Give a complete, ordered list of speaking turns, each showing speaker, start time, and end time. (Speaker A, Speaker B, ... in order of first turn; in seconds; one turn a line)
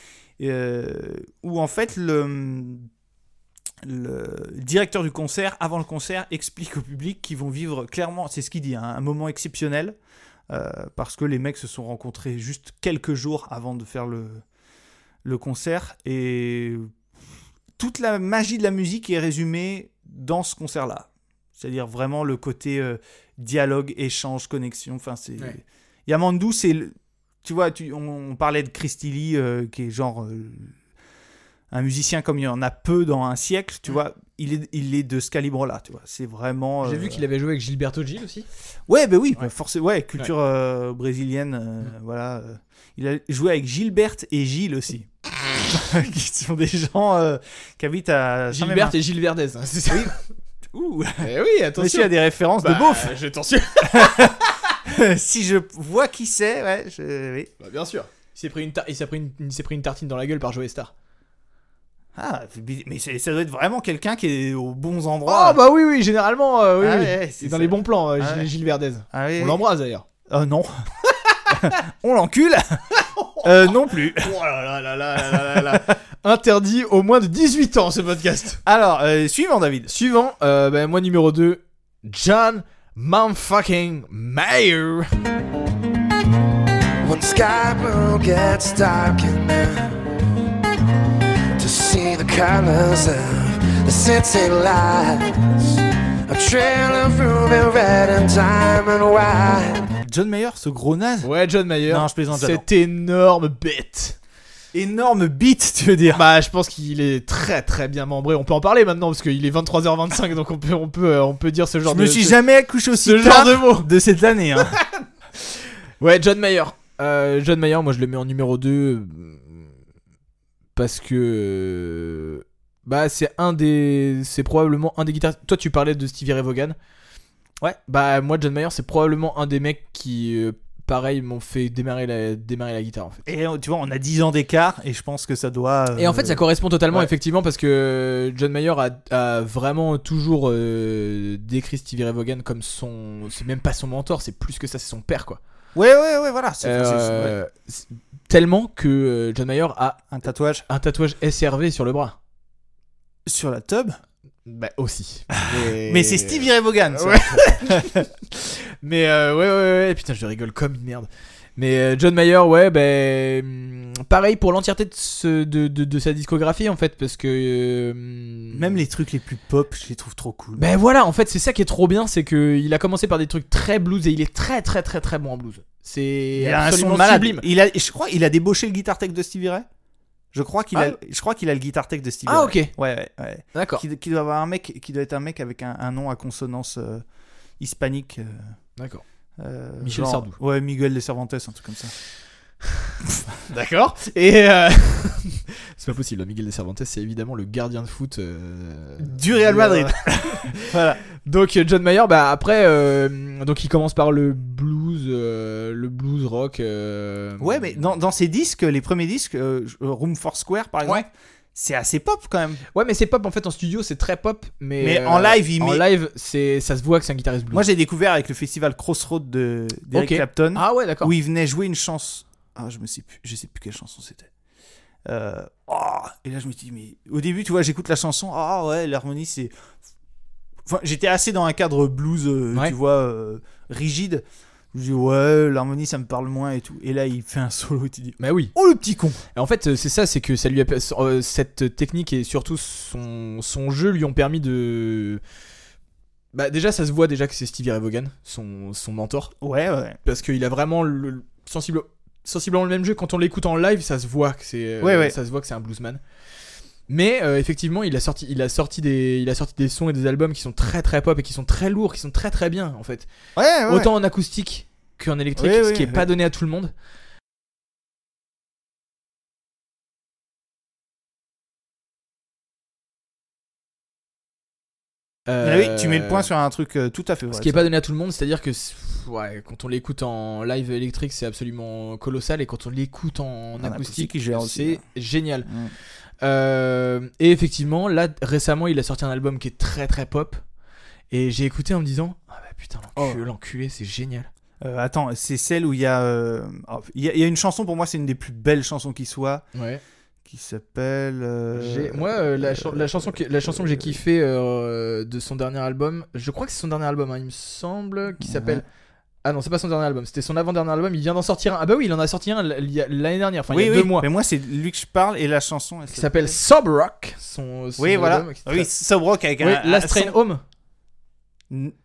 Speaker A: 0.4-2.9
Speaker A: 3.8-9.9
Speaker A: 10.5-14.4
Speaker A: 15.2-16.9
Speaker A: 17.8-30.7
Speaker A: 31.7-37.2
Speaker B: 36.8-38.5
Speaker A: 38.9-49.0
Speaker B: 48.5-50.1
Speaker A: 49.9-50.1
Speaker A: 50.7-53.1
Speaker B: 51.2-54.5
Speaker A: 53.9-57.5
Speaker B: 57.6-60.9
Speaker A: 62.1-65.6
Speaker B: 65.2-70.0
Speaker A: 66.8-68.5
Speaker A: 69.1-69.6
Speaker A: 70.3-70.7
Speaker A: 71.5-72.8
Speaker B: 73.0-73.4
Speaker A: 73.4-74.4
Speaker B: 74.2-78.6
Speaker A: 75.3-75.8
Speaker A: 78.6-79.9
Speaker B: 79.9-85.1
Speaker C: 87.0-90.0
Speaker C: 91.6-99.8
Speaker A: 100.0-101.3
Speaker B: 101.2-104.2
Speaker A: 101.9-102.6
Speaker A: 104.7-106.2
Speaker B: 106.1-112.4
Speaker A: 111.8-114.8
Speaker B: 112.9-113.9
Speaker B: 115.4-119.7
Speaker B: 120.8-126.8
Speaker B: 127.8-133.2
Speaker A: 133.2-136.4
Speaker B: 136.0-145.4
Speaker A: 145.7-147.3
Speaker B: 146.6-150.0
Speaker A: 150.1-150.6
Speaker B: 150.7-152.2
Speaker A: 153.2-154.0
Speaker B: 154.4-168.8
Speaker A: 155.5-158.0
Speaker A: 168.5-170.7
Speaker B: 170.6-177.4
Speaker A: 176.4-179.7
Speaker A: 180.3-187.0
Speaker B: 182.2-182.7
Speaker B: 183.5-183.8
Speaker A: 187.6-188.5
Speaker B: 188.8-189.0
Speaker A: 189.4-191.9
Speaker B: 189.8-190.4
Speaker B: 193.5-200.6
Speaker A: 199.0-201.0
Speaker B: 201.2-207.8
Speaker A: 207.4-212.6
Speaker B: 212.7-217.7
Speaker A: 214.8-215.8
Speaker A: 217.5-224.3
Speaker B: 219.9-221.1
Speaker A: 225.1-229.5
Speaker A: 230.7-239.1
Speaker B: 238.2-245.2
Speaker B: 246.3-249.3
Speaker A: 249.4-250.0
Speaker B: 250.0-256.0
Speaker A: 254.8-255.1
Speaker B: 256.9-263.1
Speaker A: 263.4-263.9
Speaker B: 263.7-266.7
Speaker A: 265.4-266.1
Speaker B: 275.3-276.3
Speaker A: 275.4-277.7
Speaker B: 277.3-285.5
Speaker A: 283.6-284.8
Speaker A: 285.4-285.7
Speaker B: 286.2-290.4
Speaker B: 291.1-294.3
Speaker A: 292.9-293.2
Speaker A: 294.6-299.4
Speaker B: 299.5-299.8
Speaker A: 300.2-304.0
Speaker B: 301.5-308.6
Speaker A: 308.2-308.6
Speaker B: 309.2-314.1
Speaker A: 313.5-316.4
Speaker B: 315.9-318.7
Speaker A: 317.8-320.1
Speaker B: 319.4-320.4